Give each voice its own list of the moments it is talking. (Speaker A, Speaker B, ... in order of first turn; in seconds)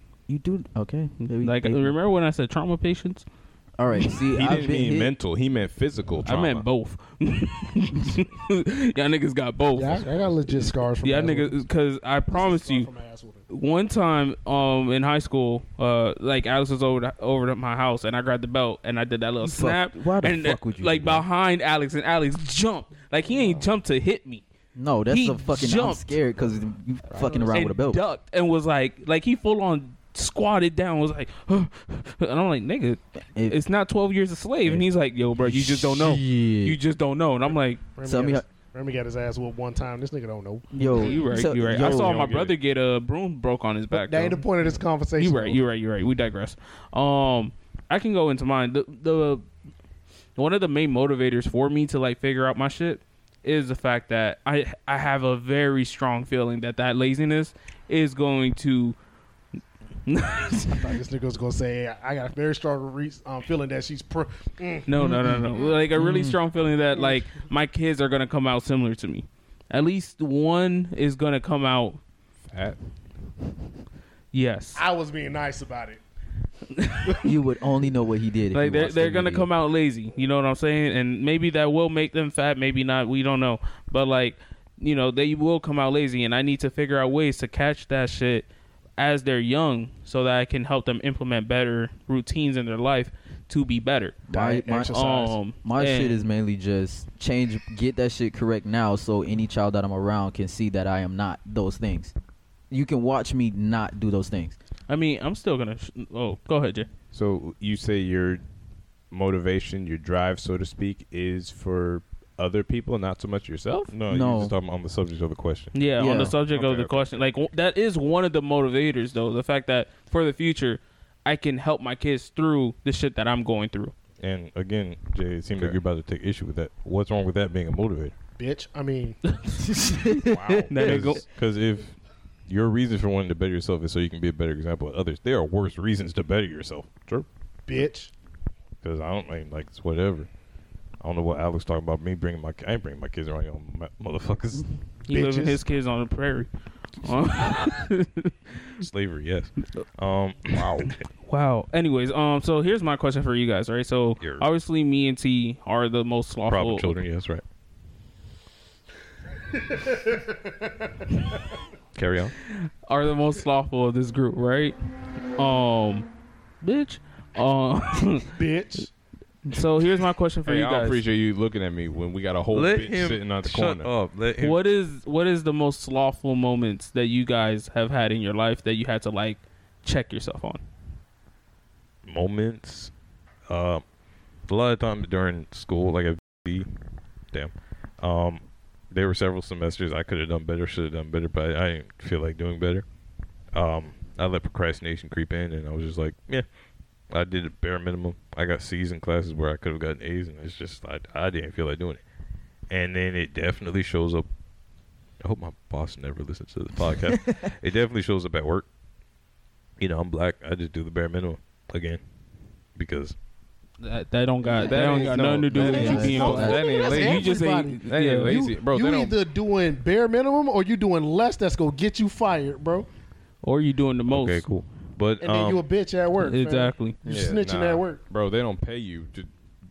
Speaker A: 0.3-1.9, 3.8-5.1, 19.4-21.2, 24.8-28.0, 35.4-36.8, 38.0-38.4, 40.7-42.3, 65.0-65.4, 66.0-66.4, 77.2-79.5, 94.3-95.0, 95.6-102.1, 102.7-104.6, 114.1-114.5, 116.0-116.3, 129.7-130.6, 215.5-216.7
Speaker B: 1.4-3.2, 6.3-10.0, 11.0-12.9, 13.5-24.4, 25.1-26.1, 27.5-37.8, 40.8-44.4, 45.2-49.5, 50.4-59.0, 60.1-60.9, 64.9-72.0, 74.3-74.8, 76.7-77.3, 78.5-88.5, 89.0-94.2, 94.8-96.2, 104.9-106.9, 115.7-123.9, 129.3-131.2, 145.1-148.8, 151.2-157.0, 162.5-164.8, 165.4-166.1, 166.6-168.4, 169.5-171.0, 174.4-180.6, 213.8-218.4, 223.4-224.5, 226.2-227.0
Speaker C: 4.3-6.7, 9.9-10.2, 41.8-42.5, 72.5-72.8, 107.1-108.4, 109.1-114.0, 116.6-117.0, 125.5-125.8, 130.1-131.2, 150.5-150.9, 170.5-173.9, 214.5-219.2, 227.1-229.3
Speaker D: 9.8-11.6, 12.3-13.4, 38.0-40.7, 43.9-45.6, 60.7-64.9, 74.8-76.0, 94.3-95.4, 128.4-129.2, 137.7-138.1, 145.1-145.6, 159.5-161.1, 168.3-168.9, 215.6-222.9, 225.2-228.0
Speaker E: 113.9-115.9, 124.2-128.1, 130.8-136.9, 138.8-140.3, 141.0-144.7, 148.8-150.9, 154.2-154.5, 156.5-157.4, 161.9-162.4, 172.5-174.6, 182.1-182.9, 183.5-183.8, 184.5-186.7, 187.3-192.8, 193.5-196.5, 197.1-202.0, 202.7-204.3, 205.2-208.7, 209.8-212.0, 212.8-213.2, 224.1-225.6